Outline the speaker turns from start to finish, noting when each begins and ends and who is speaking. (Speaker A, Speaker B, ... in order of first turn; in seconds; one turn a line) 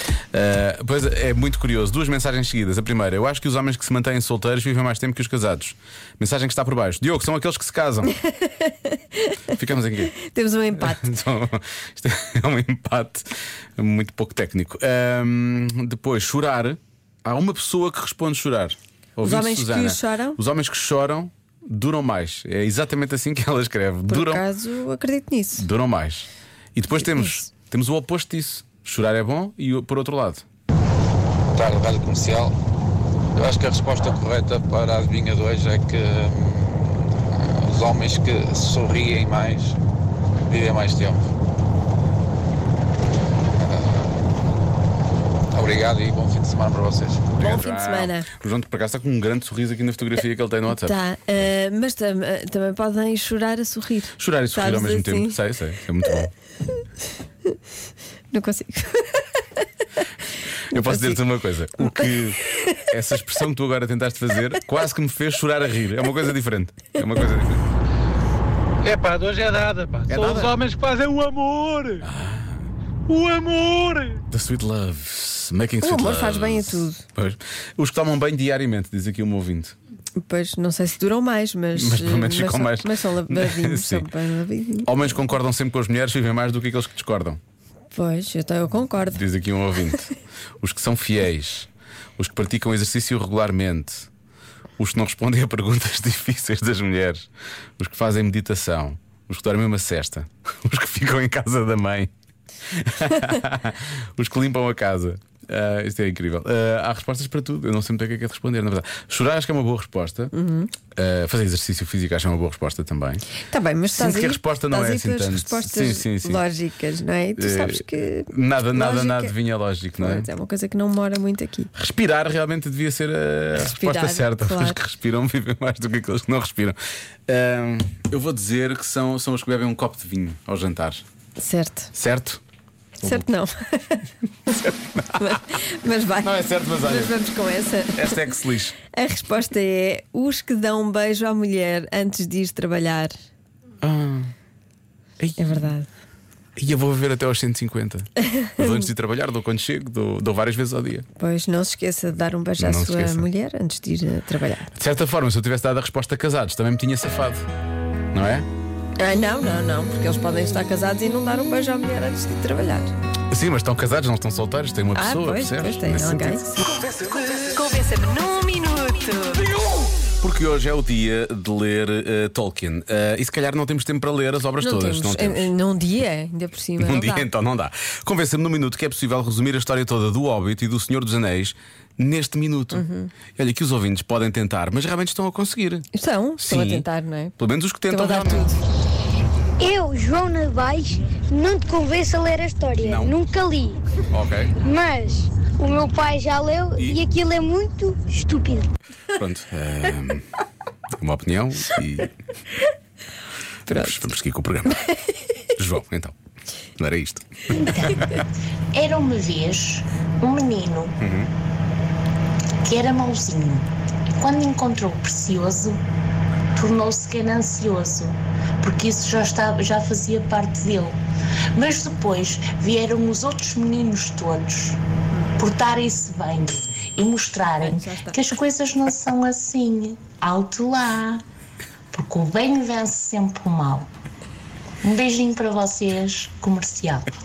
Speaker A: 0.3-8.1
Speaker B: 8.4-9.4
Speaker A: 9.5-10.1
Speaker B: 10.2-11.2
Speaker A: 10.7-13.3
Speaker A: 13.8-24.4
Speaker B: 19.2-20.4
Speaker B: 24.1-25.6
Speaker A: 25.6-30.4
Speaker B: 26.9-27.4
Speaker C: 31.6-32.5
Speaker C: 33.4-36.9
Speaker C: 37.4-39.8
Speaker C: 40.5-41.2
Speaker C: 43.6-44.0
Speaker C: 45.5-47.3
Speaker B: 47.4-48.3
Speaker A: 47.4-51.5
Speaker B: 50.7-55.4
Speaker A: 54.2-56.3
Speaker B: 58.3-59.4
Speaker B: 60.7-61.2
Speaker A: 60.7-62.4
Speaker B: 61.8-62.8
Speaker A: 62.9-67.6
Speaker D: 68.8-72.0
Speaker A: 70.1-70.6
Speaker A: 72.0-72.7
Speaker D: 73.1-74.2
Speaker A: 74.3-79.7
Speaker B: 75.8-77.0
Speaker B: 80.2-85.1
Speaker A: 81.7-84.1
Speaker A: 84.8-87.4
Speaker B: 87.9-89.3
Speaker A: 89.1-90.1
Speaker A: 90.6-94.1
Speaker A: 94.8-97.3
Speaker A: 97.8-102.1
Speaker A: 102.7-110.3
Speaker B: 110.3-110.7
Speaker A: 111.0-113.2
Speaker B: 113.4-119.3
Speaker A: 113.9-116.4
Speaker A: 117.4-120.3
Speaker B: 120.0-121.7
Speaker A: 121.7-126.8
Speaker B: 123.6-124.8
Speaker A: 127.3-131.0
Speaker B: 131.4-131.9
Speaker A: 131.9-132.4
Speaker B: 133.0-134.0
Speaker A: 134.5-135.1
Speaker B: 135.2-138.2
Speaker A: 136.2-137.1
Speaker A: 137.9-138.7
Speaker B: 138.8-143.1
Speaker A: 143.8-144.3
Speaker B: 145.4-145.9
Speaker A: 146.6-151.1
Speaker B: 151.2-154.7
Speaker A: 152.6-153.3
Speaker A: 154.7-157.4
Speaker A: 158.1-158.5
Speaker B: 159.0-162.9
Speaker A: 163.3-167.4
Speaker B: 164.9-166.6
Speaker B: 167.4-169.4
Speaker A: 169.5-175.5
Speaker B: 174.6-177.3
Speaker A: 176.8-182.8
Speaker B: 182.7-183.1
Speaker A: 183.3-185.9
Speaker B: 185.9-187.3
Speaker A: 186.4-186.8
Speaker A: 187.4-188.5
Speaker B: 187.9-188.6
Speaker E: 189.7-193.8
Speaker A: 192.8-193.1
Speaker A: 194.1-194.5
Speaker E: 194.6-198.5
Speaker A: 196.8-197.0
Speaker A: 199.1-200.2
Speaker A: 201.0-202.1
Speaker B: 203.7-204.0
Speaker A: 203.7-204.8
Speaker A: 205.6-206.1
Speaker A: 206.8-208.2
Speaker B: 207.6-208.1
Speaker F: 208.7-211.0
Speaker A: 211.0-211.3
Speaker F: 212.6-213.7
Speaker F: 214.2-215.8
Speaker F: 216.6-221.0
Speaker F: 221.5-224.8
Speaker B: 225.1-225.5
Speaker F: 225.4-231.2
Speaker B: 227.6-228.3
Speaker F: 231.9-233.9
Speaker F: 234.8-237.1